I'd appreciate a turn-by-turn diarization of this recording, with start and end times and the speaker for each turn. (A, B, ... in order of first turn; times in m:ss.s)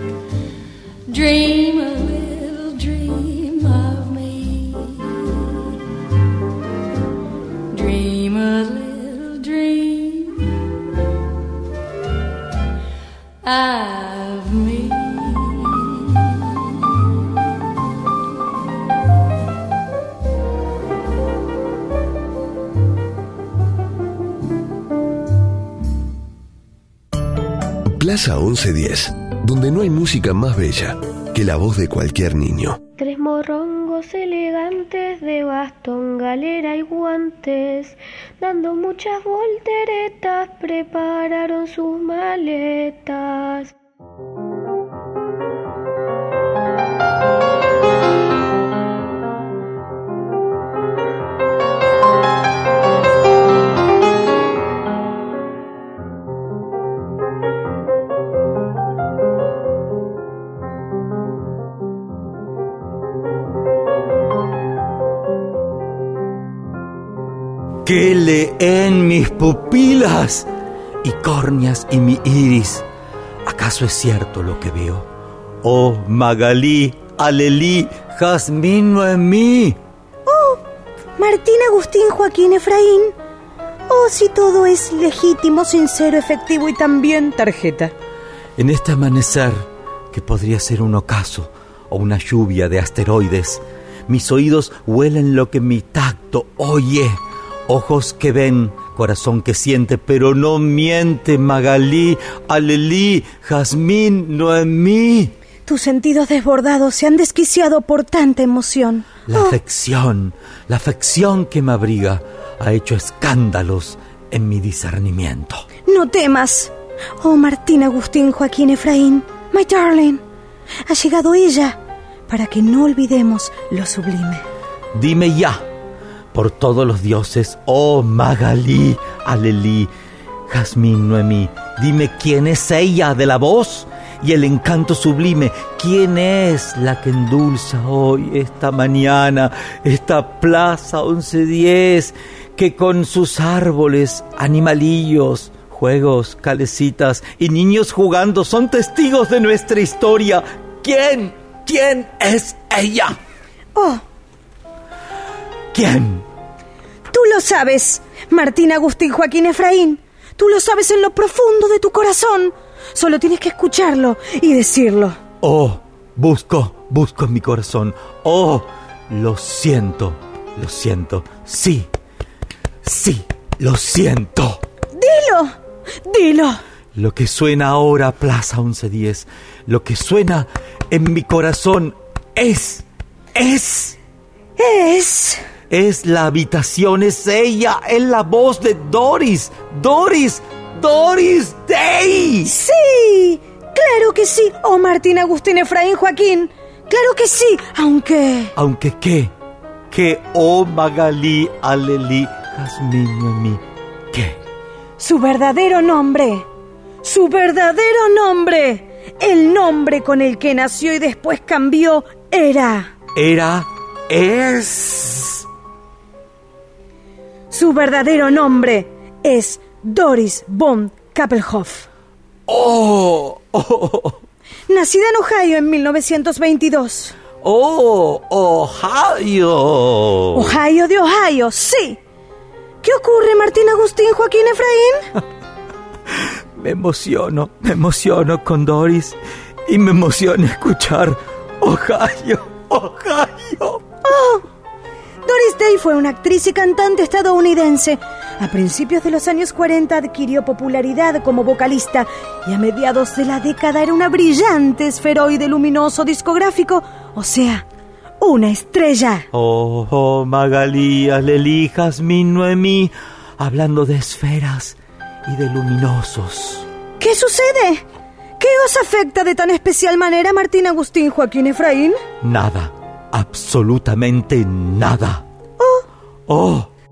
0:01.1-0:05.5 A
0:07.7-0:10.5 A
0:13.4-0:16.1 A
0:27.9-0:32.8 B
0:33.0-0:43.7 C
1:07.8-1:10.5 D
1:11.0-1:12.8 D
1:13.4-1:15.1 D
1:15.6-1:19.8 D
1:20.2-1:20.6 E
1:21.2-1:23.2 E
1:23.9-1:27.9 E
1:28.6-1:45.3 D
1:45.6-1:49.5 E
1:49.3-1:55.6 D
1:55.8-2:00.2 E
2:00.8-2:04.4 E
2:04.9-2:05.6 D
2:06.3-2:09.9 D
2:10.5-2:33.2 D
2:33.7-2:34.0 E
2:35.7-2:36.2 D
2:37.1-2:45.2 E
2:45.4-2:51.9 D
2:52.8-2:54.6 D
2:54.9-2:56.6 E
2:56.9-3:02.8 D
3:03.3-3:04.0 D
3:04.6-3:05.4 E
3:05.7-3:12.5 D
3:12.4-3:18.5 E
3:18.6-3:19.3 D
3:19.9-3:23.6 D
3:24.1-3:24.4 D
3:25.0-3:26.5 E
3:27.0-3:32.9 E
3:33.1-3:35.4 D
3:37.5-3:41.9 E
3:42.5-3:44.2 D
3:44.7-3:47.2 E
3:47.4-3:50.5 D
3:50.3-3:52.0 E
3:52.8-3:55.1 E
3:56.1-4:03.9 D
4:04.0-4:04.4 E
4:05.2-4:17.6 E
4:18.2-4:19.2 E
4:19.3-4:26.6 D
4:27.0-4:27.8 E
4:28.4-4:32.0 E
4:32.2-4:35.2 D
4:35.6-4:35.8 E
4:36.3-4:36.7 D